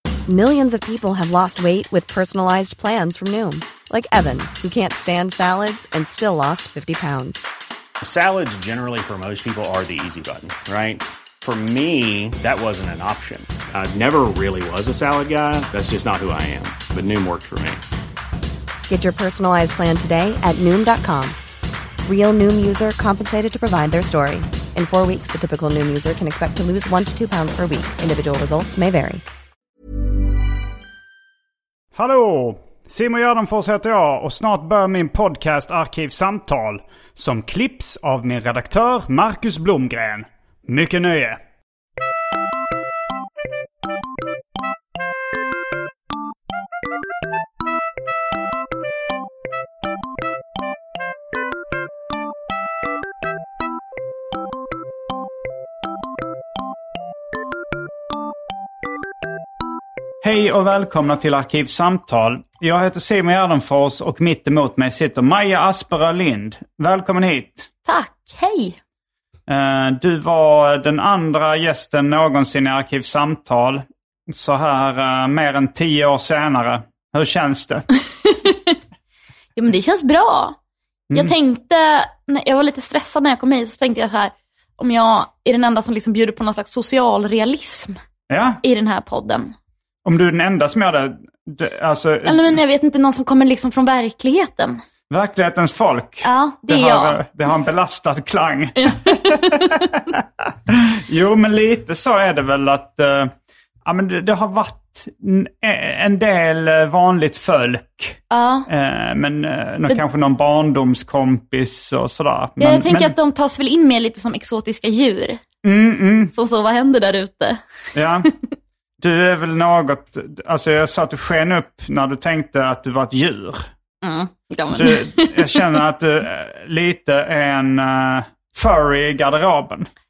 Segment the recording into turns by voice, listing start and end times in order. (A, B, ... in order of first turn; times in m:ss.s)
0:00.3-0:07.5 A
0:08.0-0:17.8 B
0:18.9-0:21.4 A
0:22.0-0:29.2 A
0:31.9-0:41.4 C
1:00.2-1:07.7 C
1:07.8-1:08.8 D
1:09.5-1:17.8 C
1:18.2-1:18.8 D
1:19.6-1:20.6 D
1:21.1-1:21.3 C
1:21.1-1:28.0 D
1:28.3-1:28.6 C
1:28.6-1:29.5 D
1:30.0-1:32.6 C
1:32.2-1:34.8 D
1:35.1-1:43.3 C
1:36.2-1:37.2 D
1:38.8-1:39.9 D
1:43.8-1:53.1 C
1:48.3-1:48.7 D
1:52.6-1:55.4 D
1:55.6-1:56.3 C
1:56.3-1:57.6 D
1:57.9-1:58.3 C
1:59.0-2:03.7 C
2:04.0-2:05.8 D
2:04.7-2:09.9 C